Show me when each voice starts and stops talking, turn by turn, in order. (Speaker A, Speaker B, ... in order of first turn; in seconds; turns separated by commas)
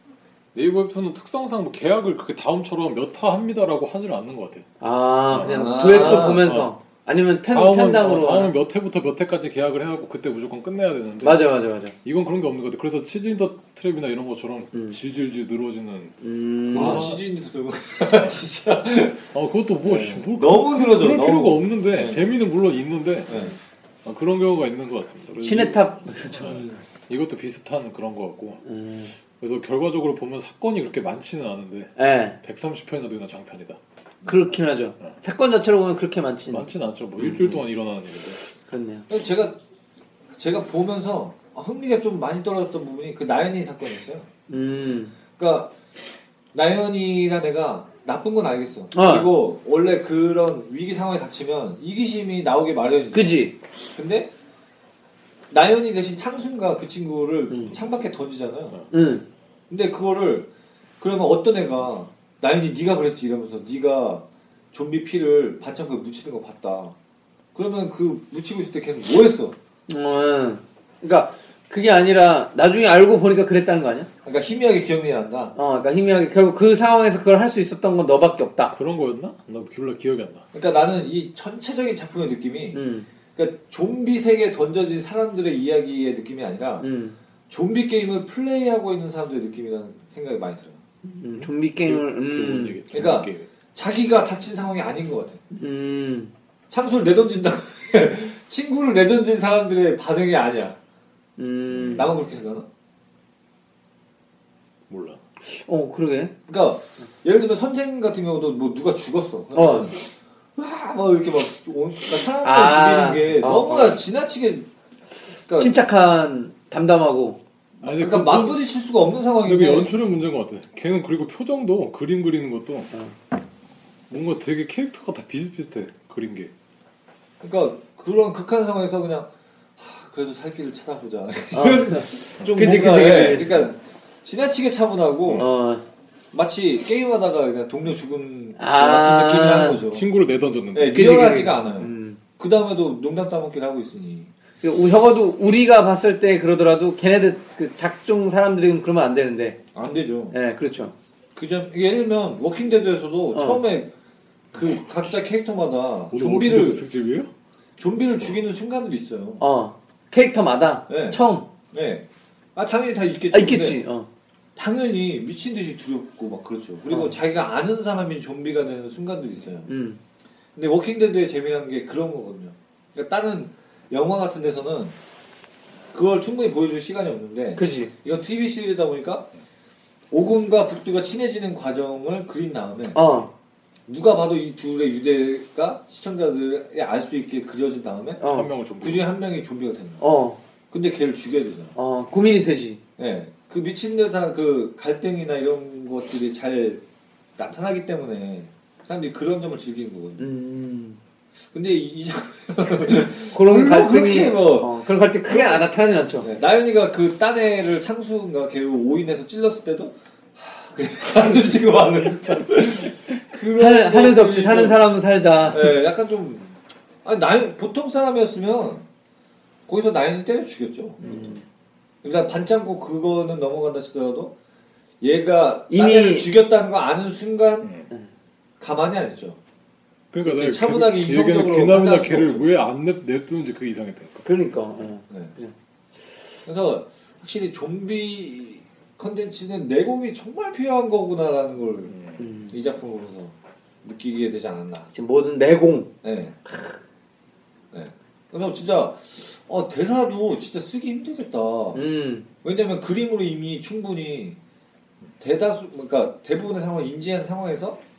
Speaker A: 0.5-4.7, Speaker B: 4.8-8.5, Speaker A: 5.3-6.7, Speaker C: 5.4-6.5, Speaker A: 7.5-17.2, Speaker B: 11.2-11.9, Speaker B: 16.2-17.1, Speaker C: 16.7-19.3, Speaker A: 19.3-23.4, Speaker C: 19.8-22.2, Speaker C: 23.3-23.6, Speaker A: 24.0-28.6, Speaker B: 25.4-26.6, Speaker C: 26.4-26.8, Speaker B: 28.6-29.1, Speaker A: 29.1-33.8, Speaker B: 32.0-32.4, Speaker B: 34.2-37.6, Speaker A: 36.5-38.4, Speaker B: 38.4-39.1, Speaker C: 39.1-39.6, Speaker C: 40.3-44.3, Speaker B: 44.5-45.1, Speaker C: 45.4-45.7, Speaker C: 46.5-54.3, Speaker B: 48.9-49.3, Speaker B: 53.1-53.5, Speaker C: 55.5-58.8, Speaker B: 57.5-57.7, Speaker B: 58.9-59.2, Speaker C: 59.7-60.5, Speaker C: 61.0-66.9, Speaker C: 67.5-69.5, Speaker B: 69.9-74.1, Speaker C: 74.2-75.5, Speaker B: 75.5-78.7, Speaker A: 78.7-80.5, Speaker C: 80.5-82.8, Speaker B: 82.7-83.1, Speaker C: 83.3-86.8, Speaker B: 86.8-87.2, Speaker C: 87.5-90.8, Speaker B: 91.0-92.8, Speaker A: 91.4-93.5, Speaker C: 92.9-95.4, Speaker B: 95.5-96.3, Speaker C: 96.7-100.8, Speaker B: 101.4-102.1, Speaker A: 101.7-102.1, Speaker C: 101.9-102.7, Speaker A: 104.9-105.2, Speaker B: 105.4-106.3, Speaker C: 106.5-110.0, Speaker B: 109.5-109.9, Speaker C: 110.5-114.7, Speaker B: 112.4-114.0, Speaker C: 115.5-115.8, Speaker B: 115.6-117.4, Speaker A: 117.8-118.6, Speaker C: 117.8-120.0, Speaker A: 119.4-122.9, Speaker A: 124.1-126.5, Speaker C: 127.4-135.5, Speaker B: 131.5-133.6, Speaker B: 135.3-135.8, Speaker C: 136.3-140.1, Speaker B: 138.6-139.8, Speaker A: 139.9-141.1, Speaker C: 140.7-144.3, Speaker B: 140.9-142.2, Speaker B: 144.6-149.6, Speaker C: 149.7-150.3, Speaker B: 150.3-150.9, Speaker C: 151.3-153.9, Speaker B: 153.3-153.6, Speaker C: 154.5-156.8, Speaker A: 156.1-157.3, Speaker C: 157.8-159.4, Speaker B: 159.4-161.5, Speaker C: 160.9-163.8, Speaker B: 163.3-164.1, Speaker C: 164.6-169.7, Speaker B: 169.7-170.0, Speaker C: 170.5-174.9, Speaker C: 175.9-179.3, Speaker B: 177.6-177.9, Speaker C: 180.1-183.1, Speaker B: 182.9-183.3, Speaker C: 183.9-188.2, Speaker B: 188.2-188.5, Speaker A: 188.3-189.1, Speaker C: 188.8-190.0, Speaker B: 190.0-190.4, Speaker C: 190.7-191.7, Speaker B: 191.8-192.8, Speaker C: 193.0-196.8, Speaker C: 197.4-200.2, Speaker B: 200.2-201.0, Speaker C: 201.5-205.7, Speaker B: 203.1-206.3, Speaker C: 206.2-214.8, Speaker B: 213.1-215.8, Speaker C: 215.5-218.8, Speaker C: 219.7-221.2, Speaker B: 221.0-221.4, Speaker A: 221.0-221.4, Speaker C: 222.0-224.3, Speaker C: 225.0-227.7, Speaker B: 225.7-226.3, Speaker A: 227.6-227.9, Speaker C: 228.6-229.4, Speaker A: 230.1-234.2, Speaker C: 230.2-232.5, Speaker B: 234.2-235.5, Speaker C: 236.4-241.9, Speaker A: 241.9-242.2, Speaker B: 242.2-242.5, Speaker C: 242.5-244.9, Speaker B: 244.9-245.9, Speaker C: 246.0-246.4, Speaker B: 246.4-246.8, Speaker C: 247.7-251.8, Speaker B: 251.7-252.3, Speaker C: 252.4-254.4, Speaker C: 255.2-257.8